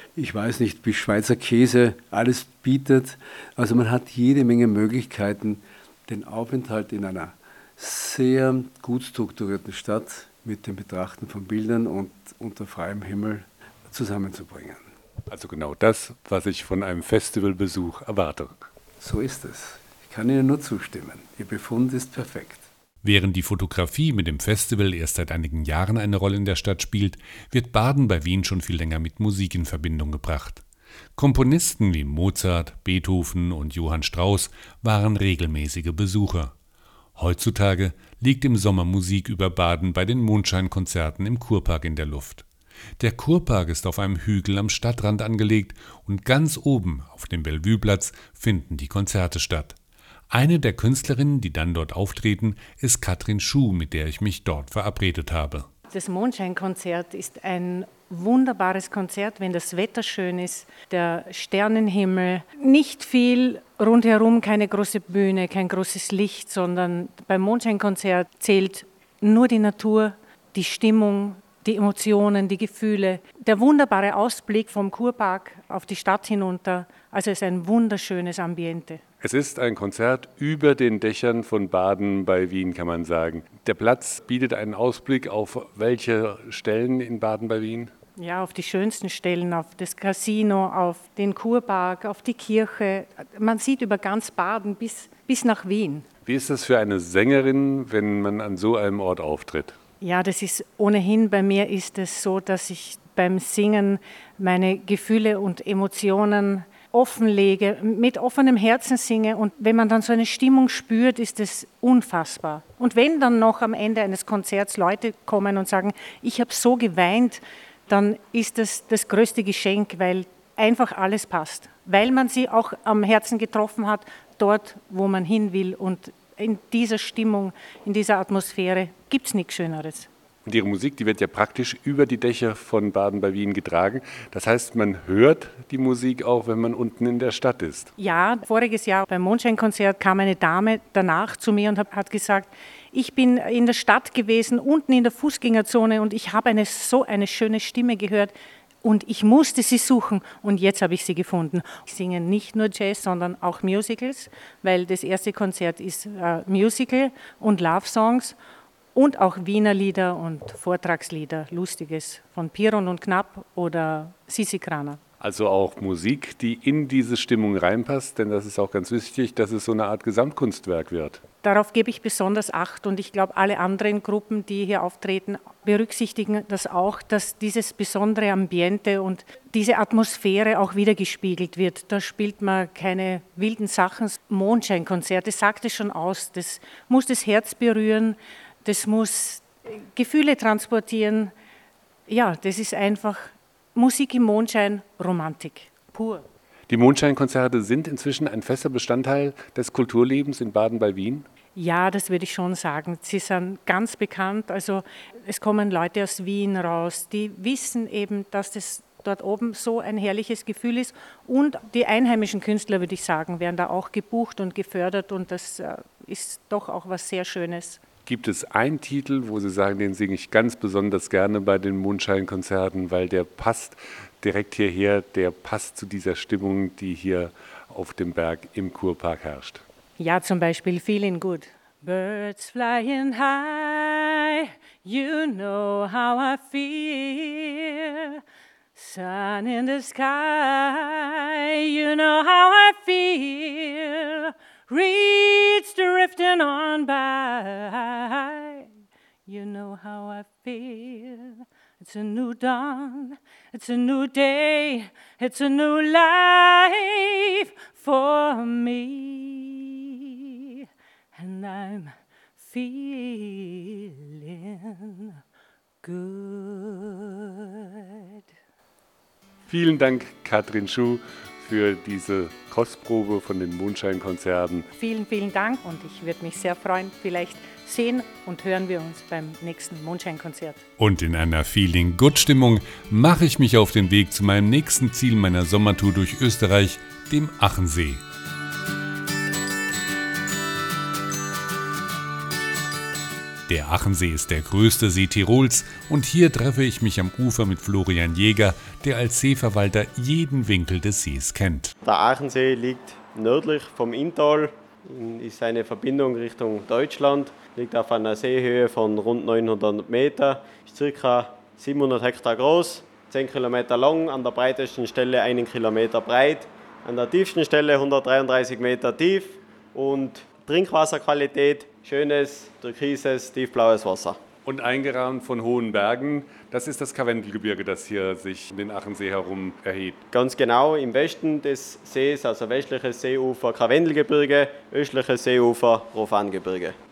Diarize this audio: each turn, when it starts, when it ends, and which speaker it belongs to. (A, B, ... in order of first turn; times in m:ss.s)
0:00.2-0:14.9 A
0:15.3-0:18.7 B
0:19.0-0:22.7 A
0:23.0-0:30.6 C
0:31.2-0:36.5 C
0:37.2-0:42.4 C
0:43.0-0:49.8 C
0:50.3-0:55.7 C
0:55.9-1:19.0 D
1:19.2-1:27.9 B
1:28.2-1:36.1 D
1:36.3-1:39.8 B
1:40.0-2:10.1 D
2:10.4-2:17.9 B
2:18.0-2:38.4 D
2:38.9-2:45.0 D
2:45.2-2:51.2 B
2:51.4-3:11.3 D
3:12.1-3:16.2 D
3:16.7-3:21.3 B
3:21.6-3:37.8 D
3:38.0-3:49.6 B
3:50.0-3:58.2 D
3:58.8-4:08.7 D
4:09.3-4:20.6 D
4:21.1-4:25.2 D
4:25.8-4:28.2 D
4:29.5-4:34.7 B
4:34.8-4:40.6 D
4:40.8-4:48.0 C
4:53.5-5:01.7 C
5:01.8-5:24.2 E
5:24.4-5:30.0 B
5:30.1-5:36.8 E